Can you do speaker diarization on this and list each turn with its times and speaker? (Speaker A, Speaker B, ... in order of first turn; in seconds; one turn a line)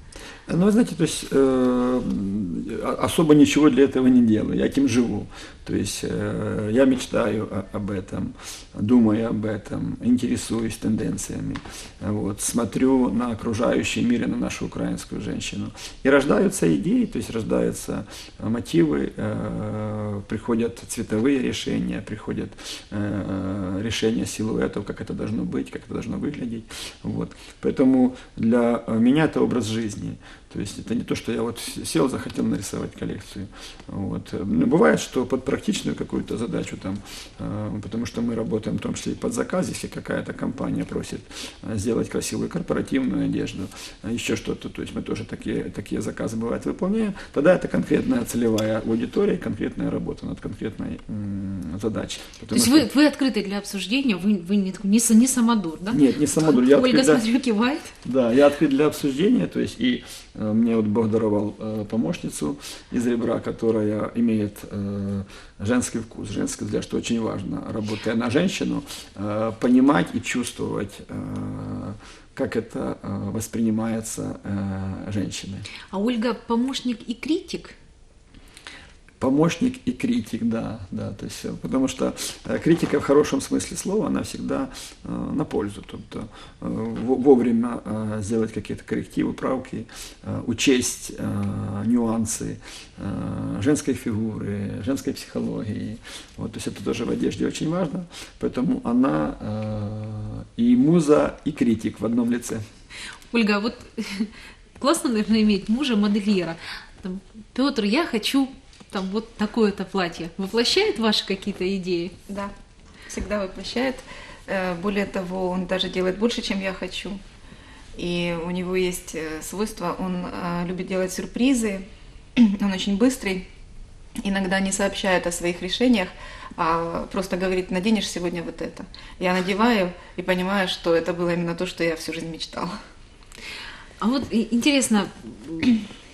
Speaker A: 0.5-52.9
Speaker B: 52.5-57.9
Speaker A: 55.9-57.2
Speaker A: 58.0-75.7
Speaker B: 75.9-77.8
Speaker A: 79.2-102.6
Speaker B: 103.3-112.1
Speaker C: 113.1-117.2
Speaker C: 118.0-123.4
Speaker C: 124.2-132.8
Speaker B: 134.0-135.8